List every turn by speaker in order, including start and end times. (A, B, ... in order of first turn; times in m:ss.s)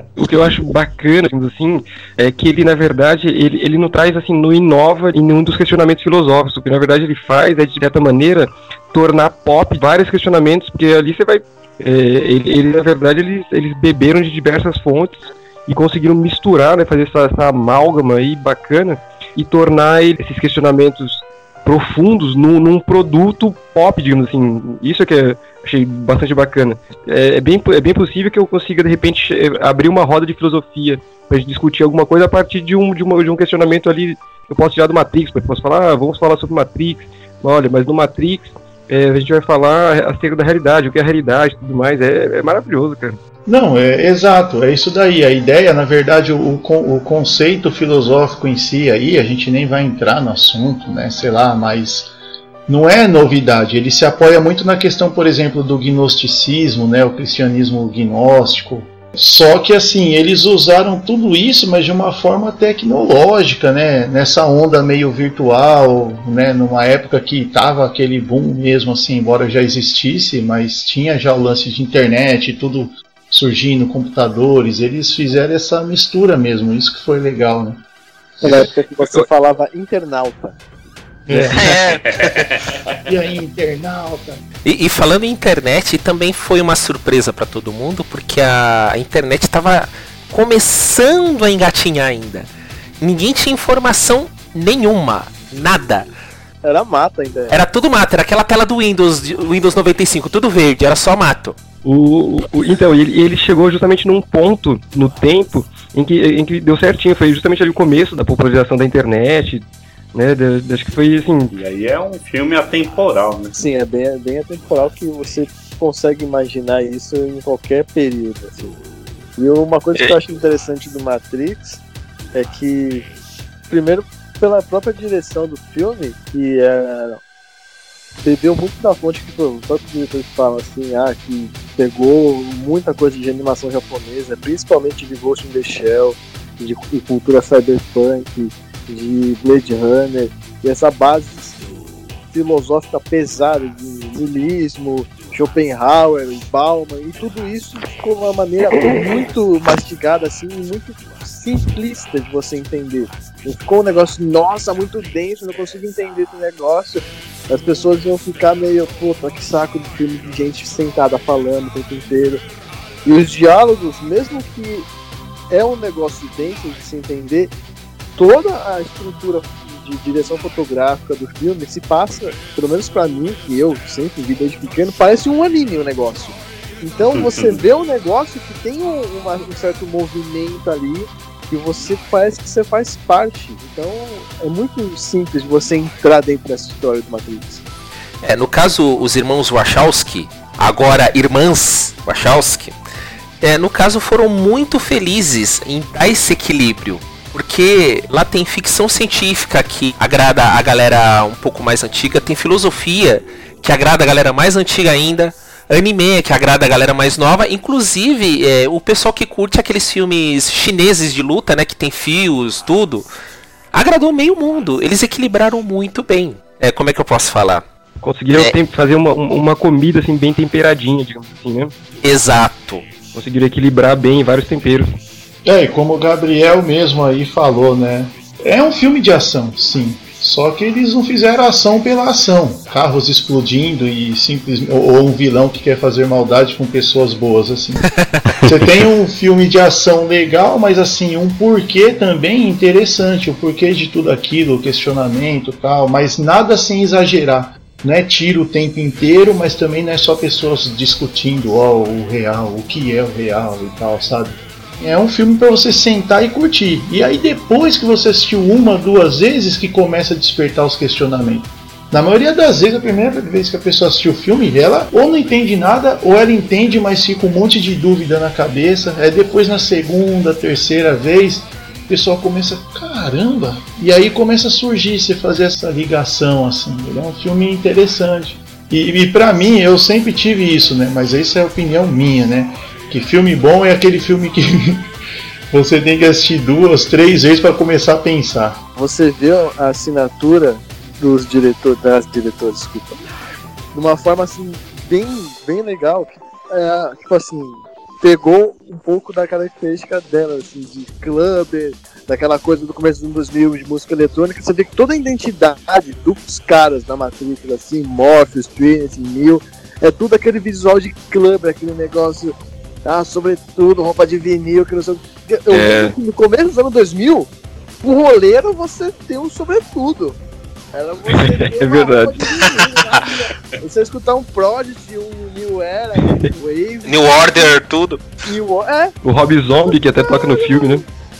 0:00.2-0:43.2 A
0:43.4-0:52.1 B
0:52.7-1:17.8 B
1:18.4-1:20.6 C
1:18.4-1:19.2 A
1:21.3-1:21.7 B
1:21.3-1:21.6 A
1:21.5-1:22.5 D
1:21.8-1:22.8 E
1:23.0-1:24.4 B
1:24.6-1:32.5 D
1:33.0-1:36.1 D
1:36.6-1:37.6 C
1:37.5-1:41.6 D
1:41.8-1:51.5 A
1:51.5-1:53.6 E
1:53.6-1:58.7 C
1:59.4-2:01.8 C
2:02.3-2:03.1 C
2:03.7-2:07.2 C
2:08.2-2:21.6 C
2:22.3-2:42.4 C
2:43.0-2:44.9 C
2:45.5-2:47.5 C
2:48.2-3:07.6 C
2:57.1-2:57.6 E
3:08.2-3:12.7 D
3:13.4-3:33.1 D
3:33.7-3:37.6 D
3:38.0-3:41.7 A
3:42.0-3:42.9 D
3:43.1-3:45.0 A
3:45.4-4:44.9 B
3:57.9-3:58.5 D
4:45.5-4:48.6 B
4:48.8-4:53.0 C
4:53.7-5:17.3 C
5:15.5-5:15.9 A
5:17.8-5:20.2 C
5:20.7-5:27.5 C
5:21.1-5:22.2 A
5:22.6-5:23.0 D
5:26.0-5:26.3 A
5:26.8-5:28.1 D
5:28.2-5:28.9 C
5:29.0-5:30.8 A
5:29.6-5:30.8 C